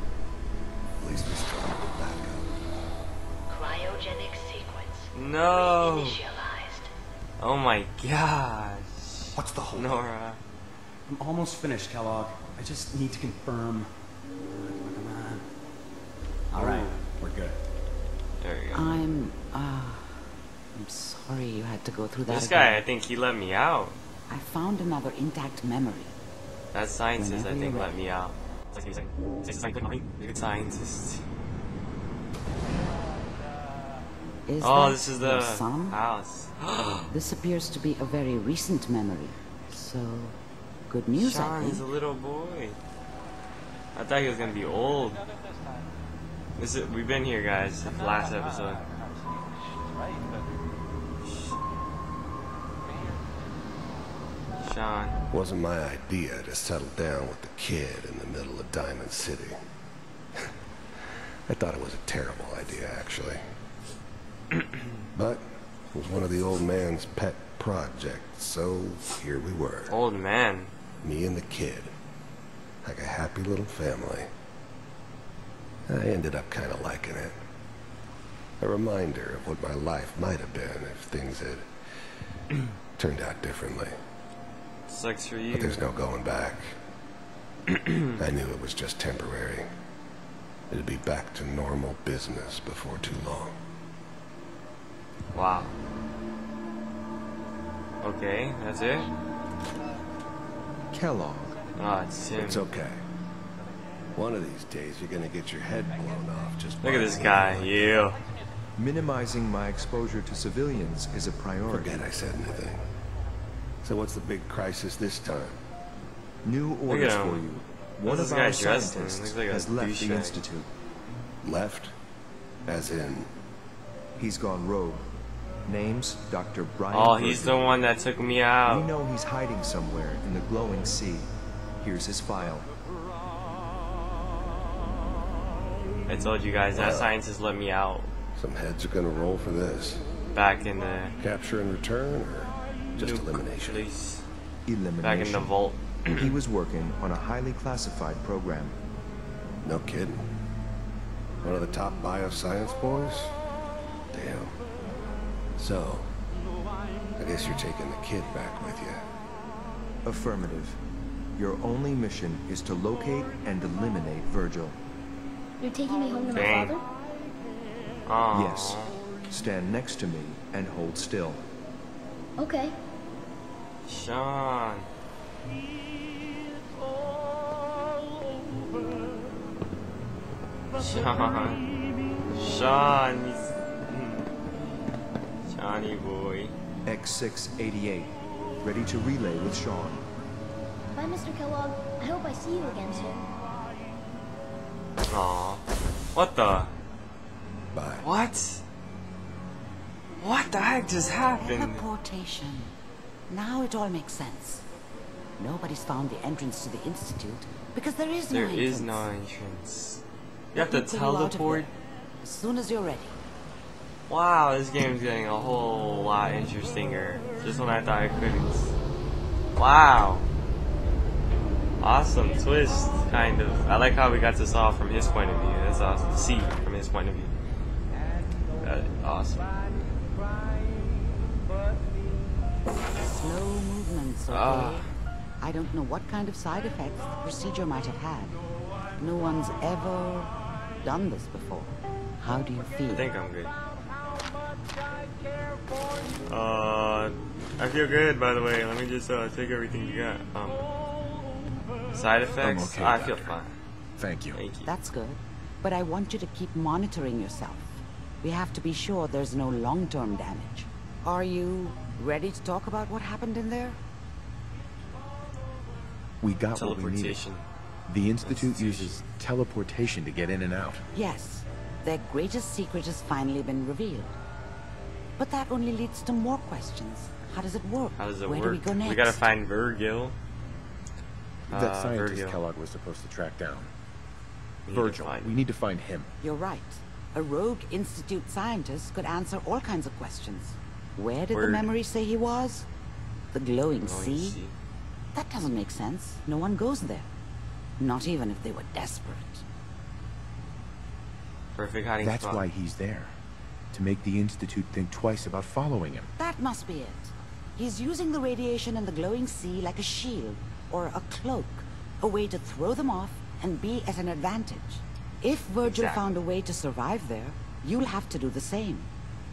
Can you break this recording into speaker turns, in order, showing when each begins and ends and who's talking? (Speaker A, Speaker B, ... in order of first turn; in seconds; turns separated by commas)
Speaker A: 1.0-2.5, Speaker B: 3.5-6.9, Speaker C: 5.1-6.2, Speaker C: 7.4-10.4, Speaker D: 9.4-10.0, Speaker E: 11.1-15.4, Speaker E: 16.5-17.0, Speaker C: 16.6-17.0, Speaker C: 18.4-19.0, Speaker F: 18.7-22.9, Speaker C: 22.3-24.0, Speaker F: 24.3-26.2, Speaker C: 26.7-31.2, Speaker F: 27.2-27.9, Speaker F: 34.5-36.0, Speaker C: 34.6-37.1, Speaker F: 37.1-40.4, Speaker F: 40.9-41.9, Speaker C: 41.2-42.8, Speaker C: 44.0-45.2, Speaker C: 46.6-48.8, Speaker C: 51.3-51.5, Speaker C: 54.6-55.2, Speaker A: 55.3-59.6, Speaker A: 61.5-63.4, Speaker A: 65.2-70.0, Speaker C: 69.9-70.7, Speaker A: 71.0-71.9, Speaker A: 72.8-74.3, Speaker A: 75.9-77.4, Speaker A: 78.6-81.7, Speaker A: 83.0-83.9, Speaker C: 84.9-85.8, Speaker A: 85.5-86.8, Speaker C: 87.8-88.0, Speaker A: 88.2-89.7, Speaker A: 90.7-93.5, Speaker C: 95.3-95.7, Speaker C: 98.0-99.1, Speaker G: 100.9-101.6, Speaker C: 101.8-102.6, Speaker A: 102.4-103.0, Speaker A: 104.2-108.0, Speaker C: 106.8-108.2, Speaker G: 108.8-112.1, Speaker A: 111.7-112.9, Speaker A: 113.8-115.6, Speaker G: 116.4-120.7, Speaker C: 116.9-117.5, Speaker C: 118.1-120.4, Speaker A: 121.4-121.9, Speaker A: 122.7-123.3, Speaker G: 124.2-125.1, Speaker G: 125.7-127.8, Speaker C: 126.9-128.9, Speaker G: 128.7-132.7, Speaker C: 136.1-138.1, Speaker A: 136.7-137.1, Speaker A: 138.4-140.1, Speaker C: 140.3-141.2, Speaker A: 141.2-143.9, Speaker C: 143.0-144.3, Speaker G: 144.7-145.6, Speaker C: 145.0-146.3, Speaker G: 146.1-148.8, Speaker A: 149.6-150.2, Speaker A: 151.4-153.3, Speaker A: 154.1-154.6, Speaker A: 155.6-156.1, Speaker A: 157.2-159.1, Speaker G: 160.1-160.8, Speaker G: 161.4-164.8, Speaker H: 165.6-166.8, Speaker C: 166.3-166.7, Speaker C: 168.1-168.9, Speaker G: 168.3-171.4, Speaker H: 172.4-172.8, Speaker C: 173.9-174.9, Speaker C: 180.8-181.6, Speaker C: 182.3-184.3, Speaker C: 185.5-186.6, Speaker G: 186.8-190.1, Speaker H: 190.9-193.3, Speaker C: 195.1-196.7, Speaker A: 197.7-198.1, Speaker C: 198.0-198.6, Speaker C: 200.2-201.8, Speaker F: 201.4-202.7, Speaker F: 203.3-204.7, Speaker F: 205.4-209.1, Speaker C: 208.3-210.0, Speaker C: 210.5-211.7, Speaker F: 210.6-213.2, Speaker C: 214.1-218.7, Speaker C: 219.6-220.3, Speaker C: 221.8-227.3, Speaker C: 228.6-229.5, Speaker F: 233.0-238.4, Speaker C: 234.3-234.9, Speaker F: 239.0-243.1, Speaker C: 242.9-243.5, Speaker C: 246.3-250.6, Speaker C: 251.9-253.6, Speaker D: 252.4-253.3, Speaker D: 254.0-254.4, Speaker C: 254.3-254.7, Speaker F: 254.7-263.8, Speaker D: 266.2-267.2, Speaker C: 266.6-267.5, Speaker D: 267.9-270.8, Speaker C: 268.2-269.0, Speaker F: 270.9-274.2, Speaker F: 275.2-279.2, Speaker C: 278.0-280.2, Speaker D: 281.5-283.7, Speaker C: 281.5-282.4, Speaker C: 284.7-285.4, Speaker D: 284.7-286.1, Speaker F: 286.2-292.7, Speaker C: 291.3-291.6, Speaker F: 293.3-294.4, Speaker C: 293.8-294.6, Speaker F: 295.1-297.1, Speaker F: 297.8-299.4, Speaker C: 301.5-302.5, Speaker D: 302.0-303.2, Speaker D: 303.7-306.1, Speaker F: 306.2-318.9, Speaker C: 315.6-316.1